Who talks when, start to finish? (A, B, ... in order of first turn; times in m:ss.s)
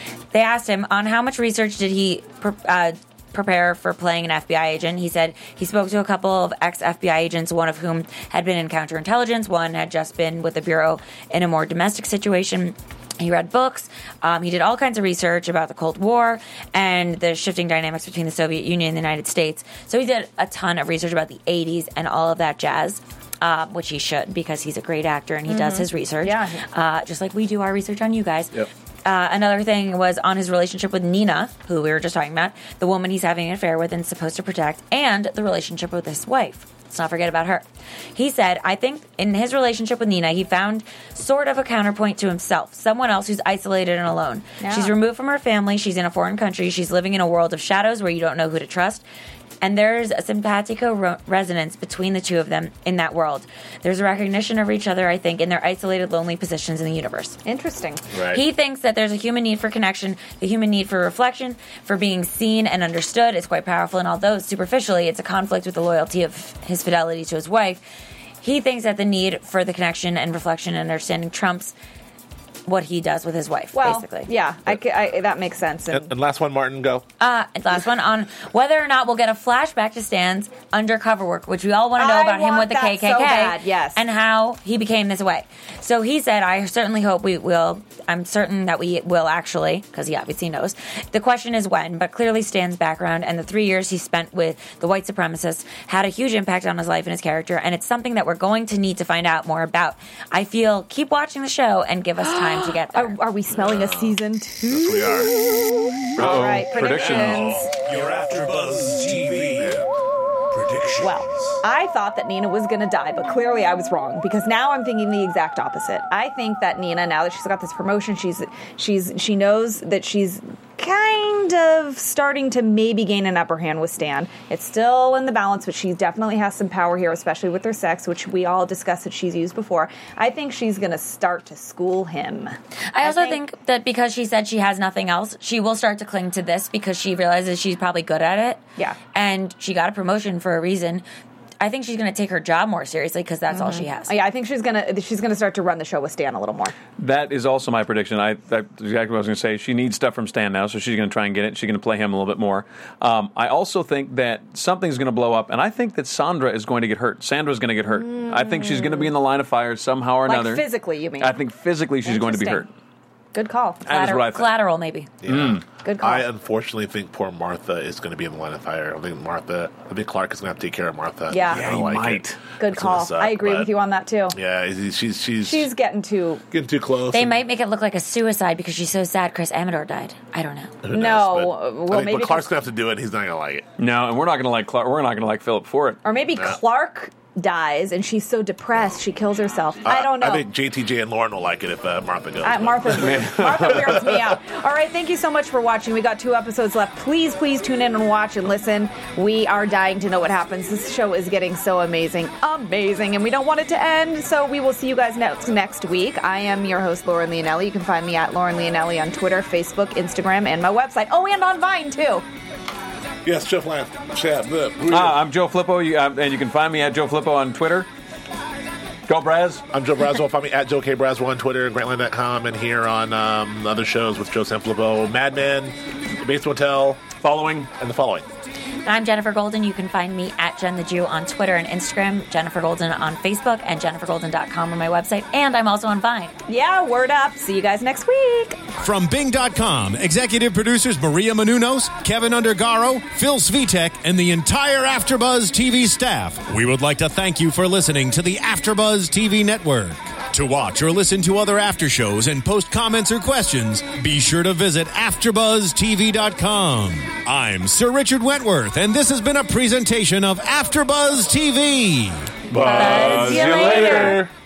0:00.3-0:49.0 A
0:25.5-0:26.6 B
0:44.6-0:44.9 B
0:49.6-0:57.4 A
0:57.4-0:58.1 B
0:58.1-0:58.4 C
0:58.3-1:07.8 A
1:08.4-1:11.7 A
1:12.6-1:14.3 A
1:13.7-1:16.1 B
1:15.9-1:17.0 C
1:17.2-1:43.2 A
1:22.0-1:24.0 B
1:42.2-1:45.3 B
1:43.5-1:45.3 C
1:46.2-1:47.7 B
1:46.2-1:47.6 D
1:47.2-1:49.9 E
1:50.5-1:51.2 E
1:51.0-2:13.4 B
2:12.9-2:18.6 A
2:19.1-2:21.0 A
2:21.6-2:24.1 A
2:23.5-2:26.7 B
2:27.0-2:40.7 D
2:37.9-2:39.1 B
2:40.2-2:41.4 B
2:41.2-2:42.7 D
2:42.0-2:42.6 B
2:43.3-2:44.1 B
2:43.8-2:44.5 D
2:43.8-2:45.1 A
2:45.2-2:53.7 C
2:45.2-2:45.6 D
2:45.8-2:46.3 B
2:51.3-2:51.7 B
2:51.5-2:52.4 D
2:52.6-2:54.4 B
2:54.3-2:55.7 C
2:55.4-2:56.4 B
2:56.5-2:57.4 C
2:57.1-3:00.8 A
3:00.8-3:03.7 C
3:00.9-3:02.5 B
3:03.8-3:06.0 D
3:06.0-3:10.5 B
3:09.8-3:14.2 C
3:12.4-3:32.2 B
3:12.9-3:14.1 D
3:33.2-3:35.2 C
3:34.9-3:37.9 D
3:39.1-3:39.6 D
3:39.7-3:47.0 C
3:47.2-3:47.7 D
3:47.8-3:48.3 C
3:48.8-3:56.4 A
3:56.5-3:58.6 B
3:58.8-4:22.4 F
4:22.5-4:24.3 C
4:22.6-4:24.2 D
4:22.6-4:24.2 A
4:23.0-4:23.5 F